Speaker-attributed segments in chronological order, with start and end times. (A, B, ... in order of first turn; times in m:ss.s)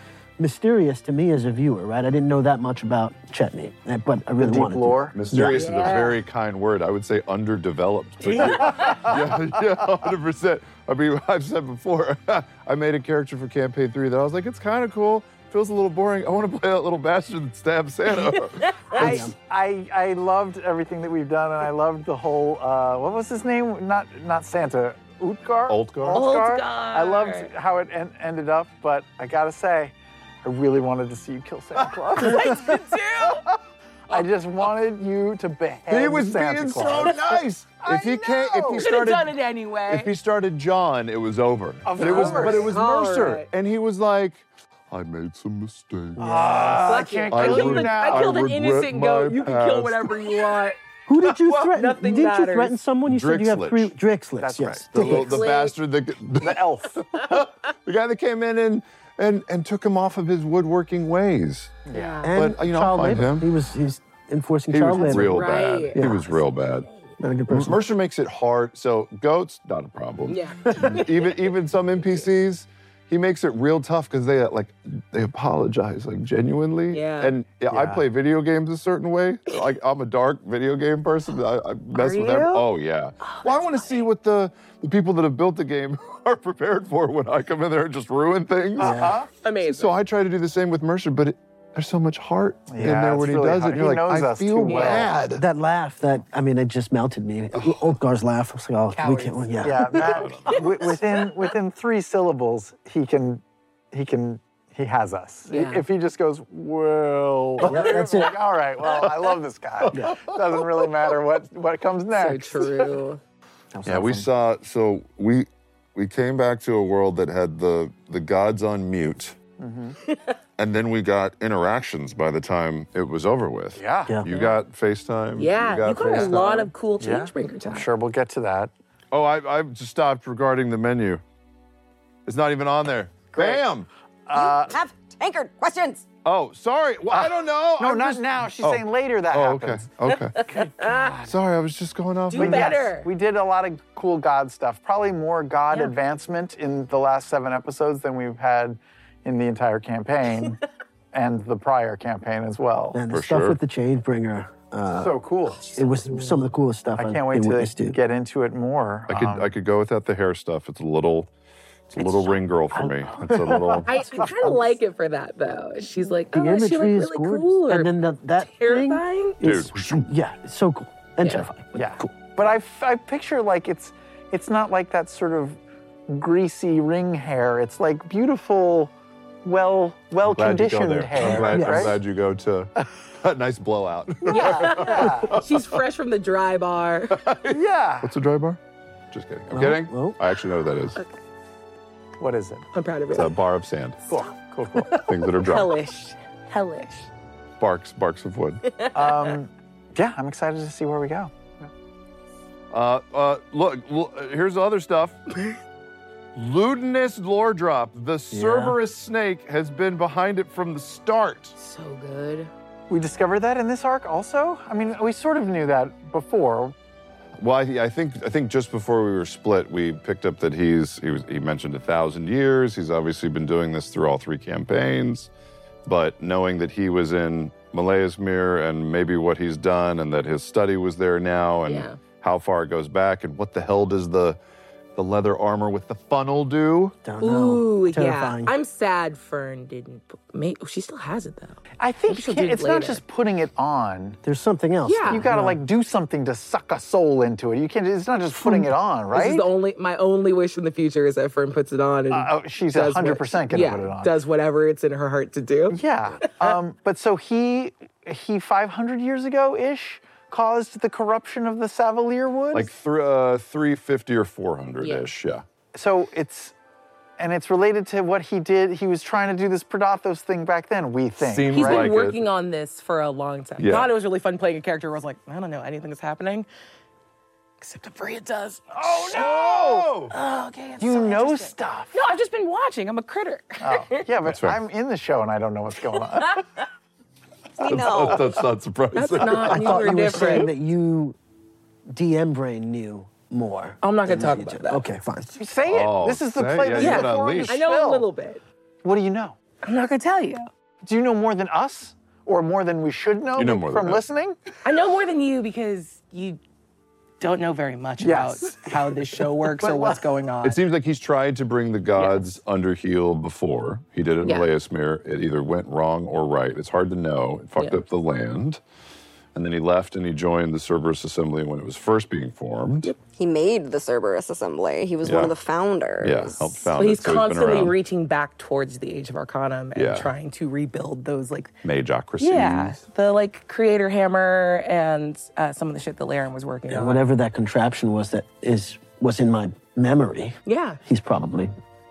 0:00.4-0:05.8 A
0:04.4-0:05.2 B
0:05.1-0:19.1 C
0:05.5-0:06.2 D
0:08.2-0:09.1 D
0:08.4-0:09.2 B
0:18.1-0:19.0 D
0:18.9-0:19.4 A
0:19.0-0:33.6 B
0:25.7-0:26.2 C
0:26.1-0:27.5 D
0:31.8-0:32.5 C
0:32.2-0:33.4 D
0:34.1-0:38.9 B
0:35.9-0:39.4 C
0:38.8-0:40.1 D
0:39.9-0:50.3 C
0:41.9-0:42.8 B
0:42.0-0:43.5 D
0:46.2-0:46.8 A
0:46.2-0:48.4 B
0:46.8-0:50.8 D
0:51.1-0:55.4 A
0:51.4-0:52.8 D
0:53.0-0:53.9 C
0:54.4-0:55.4 B
0:54.6-1:01.8 C
0:55.1-0:55.8 D
0:56.4-0:57.0 B
1:01.9-1:02.2 B
1:01.9-1:02.3 D
1:02.2-1:06.3 A
1:02.3-1:03.5 C
1:04.7-1:06.9 C
1:05.0-1:06.4 D
1:07.2-1:07.8 A
1:07.5-1:35.4 C
1:10.3-1:11.4 D
1:16.9-1:17.3 D
1:17.7-1:18.0 B
1:21.9-1:22.6 D
1:23.2-1:23.9 D
1:28.8-1:29.2 A
1:28.8-1:29.3 B
1:29.4-1:29.9 D
1:32.7-1:35.1 B
1:34.7-1:35.1 D
1:35.3-1:40.0 A
1:37.5-1:37.9 C
1:38.9-1:40.6 D
1:39.6-1:52.9 B
1:40.0-1:40.6 C
1:45.5-1:45.8 D
1:47.6-1:48.4 A
1:49.9-1:50.2 A
1:52.1-1:53.2 D
1:53.7-1:54.3 A
1:53.9-1:59.4 C
1:59.6-2:00.0 B
2:00.6-2:06.4 C
2:03.8-2:04.2 B
2:04.3-2:04.6 D
2:05.4-2:07.9 D
2:06.0-2:08.7 B
2:09.1-2:11.2 C
2:12.3-2:13.9 C
2:13.3-2:13.7 B
2:14.3-2:14.8 B
2:14.3-2:16.0 E
2:16.2-2:20.5 C
2:17.1-2:19.9 B
2:20.4-2:21.1 D
2:20.4-2:21.4 B
2:21.2-2:22.8 C
2:22.3-2:23.1 D
2:22.4-2:30.6 B
2:31.1-2:33.0 B
2:32.9-2:35.2 A
2:33.1-2:33.6 C
2:34.9-2:35.7 B
2:35.6-2:36.5 D
2:35.7-2:38.0 A
2:37.0-2:39.5 B
2:39.1-2:41.3 C
2:41.9-2:43.9 C
2:42.0-2:42.3 D
2:42.7-2:44.7 A
2:43.9-2:49.4 D
2:46.3-2:52.1 A
2:49.4-2:50.1 C
2:51.8-2:58.9 B
2:59.4-3:02.0 B
3:00.2-3:05.8 C
3:01.2-3:02.0 A
3:04.3-3:05.4 B
3:04.3-3:07.2 D
3:07.1-3:08.6 C
3:07.5-3:08.1 B
3:09.1-3:11.0 C
3:09.5-3:10.2 A
3:12.2-3:12.7 B
3:12.7-3:13.4 D
3:13.1-3:14.0 C
3:14.1-3:15.0 B
3:14.8-3:17.1 D
3:14.9-3:15.7 C
3:17.6-3:18.6 C
3:18.7-3:19.3 D
3:18.9-3:21.3 B
3:22.7-3:25.2 C
3:26.4-3:31.6 C
3:28.3-3:28.8 A
3:31.6-3:32.5 D
3:32.9-3:36.8 B
3:37.4-3:45.3 C
3:45.8-3:54.4 C
3:51.7-3:52.0 D
3:55.0-3:57.0 C
3:57.0-3:58.5 A
3:57.2-4:03.0 D
4:01.8-4:04.2 B
4:04.2-4:05.6 A
4:04.8-4:05.3 D
4:05.1-4:09.5 B
4:09.1-4:15.8 D
4:12.1-4:14.1 B
4:15.7-4:22.7 B
4:22.5-4:25.4 C
4:24.8-4:25.1 D
4:25.7-4:26.5 B
4:27.2-4:31.9 B
4:31.2-4:32.2 C
4:31.5-4:36.5 D
4:33.6-4:33.9 C
4:37.6-4:39.4 D
4:38.8-4:39.9 B
4:39.1-4:40.1 C
4:40.1-4:44.0 D
4:40.8-4:42.0 B
4:43.6-4:46.4 B
4:44.2-4:44.6 C
4:47.6-4:48.4 E
4:47.6-4:50.3 C
4:48.9-4:50.5 D
4:49.4-4:51.2 A
4:51.9-4:55.3 A
4:53.8-4:54.8 D
4:55.3-4:58.1 B
4:55.7-4:57.6 C
4:56.8-4:58.4 D
4:58.8-4:59.4 B
4:59.6-5:00.5 D
5:00.8-5:04.4 B
5:03.4-5:04.0 C
5:04.6-5:06.4 D
5:07.2-5:10.6 D
5:08.0-5:10.0 B
5:10.4-5:18.6 C
5:12.0-5:12.2 D
5:14.2-5:14.5 D
5:17.6-5:17.8 D
5:19.4-5:22.9 C
5:23.1-5:26.7 E
5:25.0-5:25.3 C
5:26.0-5:27.8 C
5:26.8-5:31.5 D
5:29.8-5:30.1 C
5:31.6-5:32.8 C
5:32.2-5:37.0 D
5:36.7-5:41.5 A
5:40.5-5:40.8 D